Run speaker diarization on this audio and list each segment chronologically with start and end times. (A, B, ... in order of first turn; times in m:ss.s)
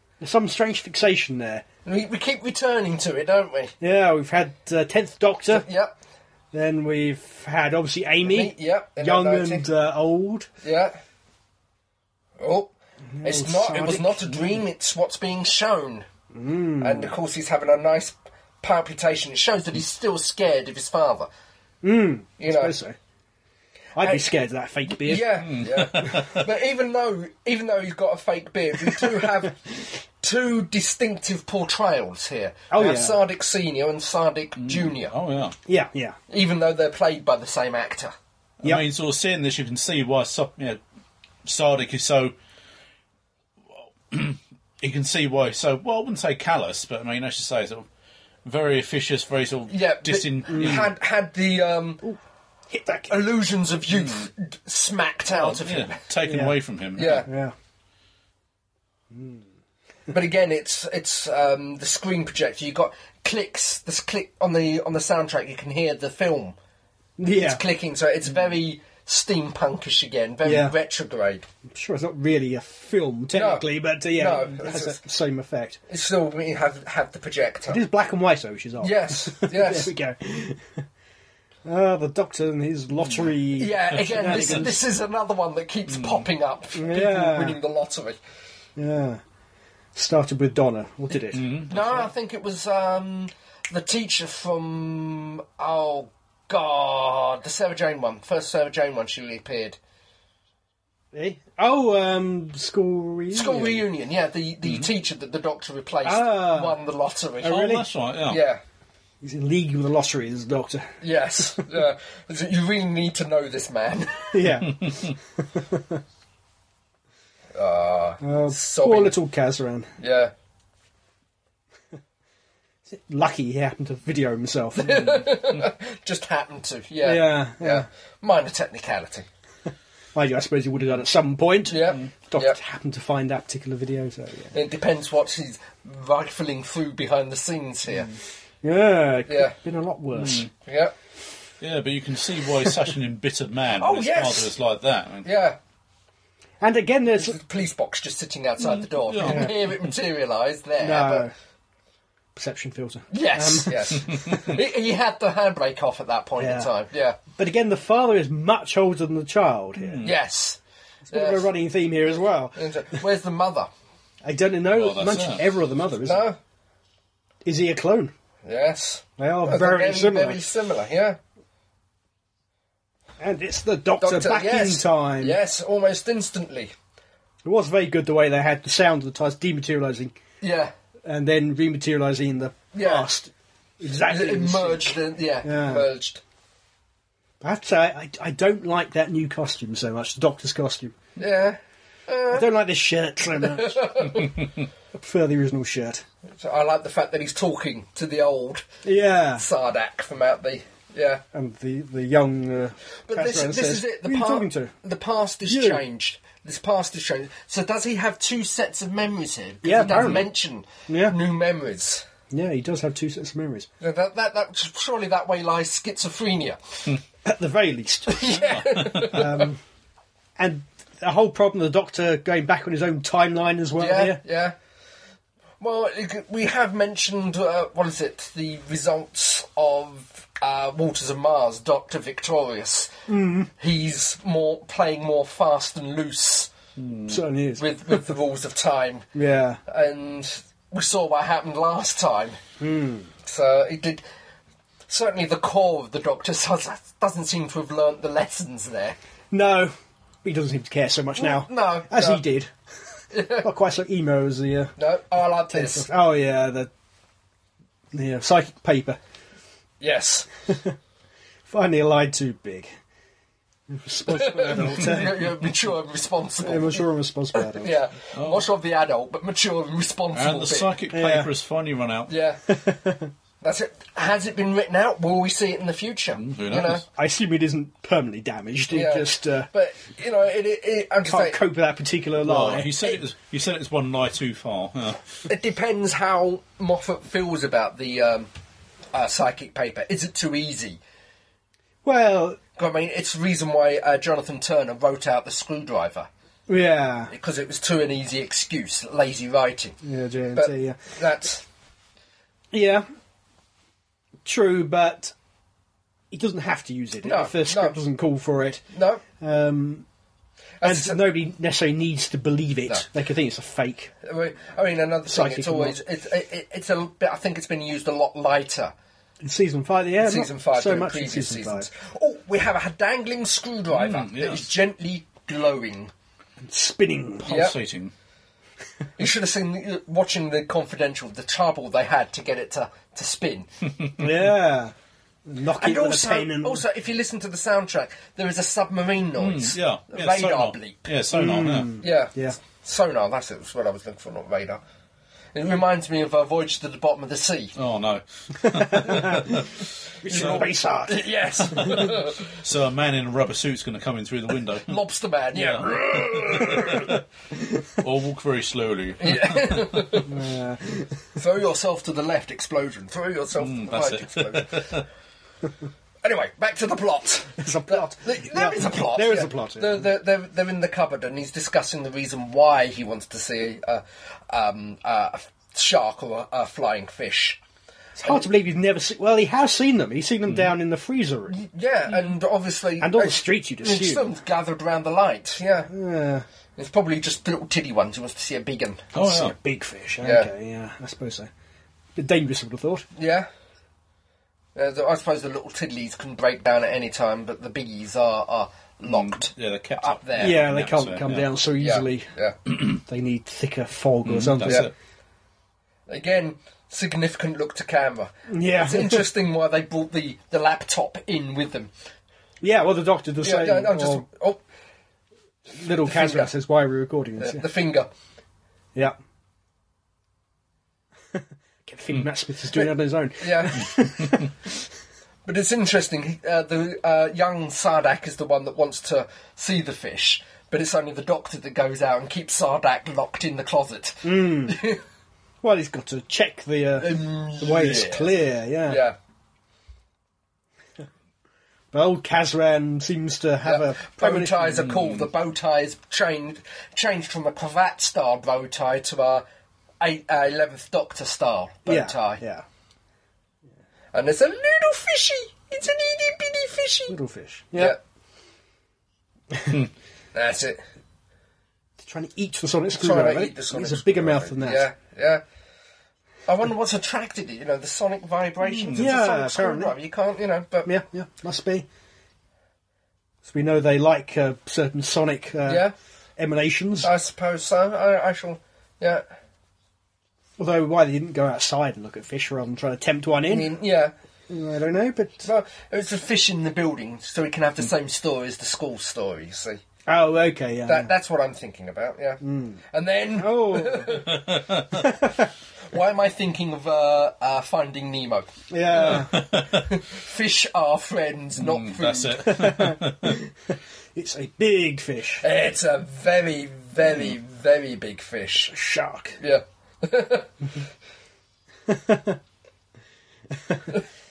0:00.2-0:01.6 A
0:01.8-0:03.7 B
0:03.8-0:05.6 A
0:05.5-0:05.9 B
0:06.5-0:10.5 A
0:08.2-0:09.6 B
0:10.6-0:11.0 B
0:12.4-0:12.7 B
0:13.1-0:14.6 A
0:13.2-0:16.1 B
0:16.3-0:17.1 A
0:16.8-0:21.3 B
0:21.8-0:23.0 A
0:22.4-0:22.7 B
0:24.0-0:25.4 A
0:24.0-0:24.2 B
0:24.9-0:35.1 B
0:25.4-0:26.5 C
0:32.7-0:33.2 A
0:34.6-0:35.5 C
0:35.6-0:36.2 A
0:36.3-0:38.1 B
0:38.6-0:40.8 C
0:41.4-0:42.3 C
0:44.1-0:47.9 C
0:48.4-0:50.9 C
0:49.7-0:52.0 B
0:50.5-0:50.9 A
0:52.7-0:53.2 A
0:53.1-0:56.0 B
0:53.9-0:54.3 C
0:55.3-0:57.2 C
0:56.2-0:56.5 A
0:57.0-0:57.3 B
0:57.0-0:57.5 A
0:59.1-0:59.4 A
1:00.1-1:06.6 B
1:07.2-1:07.6 A
1:07.3-1:11.4 B
1:10.4-1:10.7 A
1:11.7-1:15.8 A
1:13.3-1:15.0 B
1:15.9-1:17.8 B
1:17.7-1:20.8 A
1:18.8-1:19.9 B
1:21.6-1:24.8 A
1:23.6-1:28.2 B
1:24.1-1:24.6 C
1:25.9-1:26.2 C
1:26.7-1:27.6 A
1:28.8-1:29.2 A
1:29.9-1:31.4 A
1:31.3-1:32.1 C
1:31.7-1:39.8 B
1:41.1-1:43.8 A
1:43.3-1:47.7 B
1:46.0-1:46.8 A
1:47.4-1:47.8 A
1:47.4-1:48.4 C
1:48.3-1:48.6 B
1:49.2-1:50.9 A
1:51.0-1:54.4 B
1:54.3-1:56.0 A
1:57.5-1:59.1 B
1:58.2-1:59.9 A
2:00.0-2:00.3 B
2:02.9-2:05.3 A
2:04.8-2:09.3 B
2:07.0-2:07.8 A
2:10.1-2:14.5 A
2:11.7-2:12.6 B
2:14.5-2:18.1 B
2:18.6-2:20.5 A
2:19.3-2:19.5 B
2:20.1-2:20.5 C
2:20.6-2:20.9 B
2:21.6-2:25.3 C
2:23.8-2:24.5 B
2:25.2-2:25.6 B
2:26.6-2:27.4 A
2:27.2-2:31.3 B
2:28.6-2:29.8 C
2:29.2-2:29.5 A
2:30.8-2:31.3 A
2:32.3-2:34.5 A
2:33.1-2:37.2 B
2:36.4-2:36.7 A
2:37.4-2:40.0 A
2:39.8-2:40.1 C
2:40.0-2:40.6 B
2:41.1-2:42.6 A
2:41.1-2:41.5 B
2:42.6-2:43.7 B
2:44.2-2:46.2 A
2:44.7-2:45.4 C
2:46.0-2:46.4 B
2:47.4-2:48.1 A
2:48.4-2:51.2 B
2:49.2-2:50.4 A
2:53.2-2:55.4 A
2:54.0-2:56.7 B
2:57.4-3:00.2 A
3:00.4-3:00.7 B
3:01.0-3:05.9 A
3:02.7-3:03.1 B
3:04.0-3:06.2 B
3:07.4-3:10.9 A
3:11.2-3:12.5 B
3:12.3-3:14.0 A
3:13.4-3:14.4 B
3:14.9-3:16.0 A
3:16.3-3:18.6 B
3:18.8-3:19.4 A
3:19.4-3:21.2 B
3:21.3-3:24.7 A
3:23.0-3:32.1 B
3:25.5-3:25.8 A
3:29.6-3:30.3 A
3:29.9-3:30.2 C
3:30.9-3:31.2 A
3:32.3-3:33.7 A
3:33.8-3:37.0 B
3:37.2-3:39.6 A
3:38.1-3:39.5 B
3:38.4-3:39.3 C
3:40.4-3:44.2 A
3:43.8-3:44.6 B
3:45.6-3:52.9 B
3:53.1-3:53.5 A
3:53.6-3:56.5 B
3:56.8-3:57.2 C
3:57.1-3:58.0 A
3:57.6-3:59.1 B
3:59.1-3:59.6 A
3:59.6-4:02.4 B
4:02.6-4:03.1 A
4:03.2-4:04.0 B
4:04.9-4:09.0 B
4:09.3-4:09.7 A
4:10.2-4:12.5 A
4:11.2-4:12.2 B
4:13.1-4:13.5 B
4:13.4-4:14.7 A
4:14.8-4:15.9 B
4:15.5-4:16.7 A
4:17.9-4:19.0 A
4:19.8-4:20.3 B
4:20.5-4:20.7 A
4:21.5-4:22.7 A
4:23.7-4:25.3 A
4:24.1-4:30.7 B
4:26.4-4:27.8 A
4:28.2-4:28.5 C
4:30.1-4:32.1 C
4:30.9-4:31.3 A
4:32.1-4:32.4 B
4:32.5-4:33.1 A
4:33.4-4:36.8 B
4:36.1-4:36.8 C
4:36.9-4:39.5 A
4:38.7-4:41.4 B
4:41.0-4:42.7 A
4:42.2-4:45.0 C
4:45.2-4:48.3 B
4:48.9-4:50.8 B
4:51.8-4:52.4 A
4:52.6-4:56.1 B
4:56.5-4:57.1 A
4:57.1-4:59.8 B
4:59.8-5:00.8 A
5:00.3-5:01.4 B
5:02.5-5:02.8 A
5:04.2-5:05.1 A
5:06.1-5:08.6 A
5:07.0-5:07.8 B
5:08.7-5:09.0 B
5:09.2-5:09.8 A
5:10.6-5:11.0 B
5:10.6-5:13.9 A
5:14.0-5:18.7 B
5:15.1-5:15.8 A
5:19.2-5:21.7 A
5:20.0-5:25.9 B
5:23.7-5:24.5 C
5:26.4-5:27.4 A
5:27.2-5:27.9 C
5:27.3-5:27.5 B
5:29.0-5:33.5 B
5:33.8-5:34.1 C
5:34.0-5:34.7 A
5:35.2-5:36.6 A
5:35.6-5:40.8 B
5:39.2-5:41.8 C
5:41.1-5:42.4 A
5:41.8-5:44.6 B
5:45.3-5:47.5 B
5:47.6-5:49.6 C
5:48.4-5:49.4 A
5:50.0-5:51.0 A
5:50.1-5:52.2 B
5:50.1-5:50.4 C
5:51.5-5:51.8 A
5:51.6-5:54.8 C
5:54.6-5:57.0 B
5:55.3-5:57.0 C
5:57.7-5:59.8 C
5:59.0-6:00.1 B
6:00.0-6:01.2 A
6:01.2-6:04.7 B
6:03.4-6:04.8 C
6:06.0-6:17.4 B
6:07.4-6:09.9 A
6:18.0-6:21.4 A
6:20.3-6:20.5 C
6:21.3-6:25.7 B
6:22.8-6:24.1 A
6:25.7-6:26.2 A
6:26.6-6:28.9 B
6:28.9-6:29.3 C
6:29.0-6:31.3 A
6:30.0-6:30.3 B
6:32.0-6:32.8 A
6:33.0-6:33.3 B
6:34.5-6:40.4 B
6:38.8-6:41.3 C
6:40.2-6:42.1 A
6:41.6-6:42.3 B
6:42.7-6:44.7 A
6:44.0-6:44.7 C
6:44.4-6:44.7 B
6:45.9-6:51.7 B
6:48.3-6:49.0 A
6:52.4-6:54.0 A
6:53.2-6:54.4 B
6:55.5-6:57.4 A
6:55.8-6:56.3 B
6:57.2-6:57.9 B
7:01.1-7:04.5 A
7:03.2-7:03.7 B
7:04.0-7:04.3 C
7:05.2-7:14.8 B
7:14.0-7:14.6 A
7:15.4-7:18.8 A
7:16.8-7:18.1 B
7:18.6-7:19.0 B
7:21.7-7:24.7 A
7:23.4-7:29.2 B
7:24.7-7:25.0 C
7:29.8-7:32.2 B
7:31.6-7:32.4 A
7:33.9-7:37.0 B
7:36.9-7:37.8 A
7:39.3-7:39.6 A
7:40.1-7:40.6 B
7:41.8-7:44.6 A
7:42.7-7:45.2 B
7:46.3-7:50.7 B
7:48.4-7:48.9 C
7:48.7-7:49.7 A
7:50.6-7:51.7 A
7:53.2-7:56.9 A
7:55.4-7:55.7 B
7:56.8-7:59.0 B
8:00.4-8:03.5 A
8:03.3-8:03.9 B
8:04.3-8:05.3 A
8:05.2-8:09.6 B
8:09.9-8:10.9 A
8:10.7-8:14.3 B
8:12.2-8:12.6 A
8:13.2-8:14.0 A
8:14.1-8:14.8 C
8:14.7-8:15.3 A
8:15.7-8:22.5 B
8:18.5-8:19.1 A
8:18.8-8:19.6 C
8:21.4-8:23.2 C
8:22.2-8:23.3 A
8:23.9-8:25.2 A
8:25.2-8:28.5 B
8:28.5-8:29.2 A
8:29.2-8:30.3 B
8:31.7-8:32.2 A
8:33.3-8:33.7 A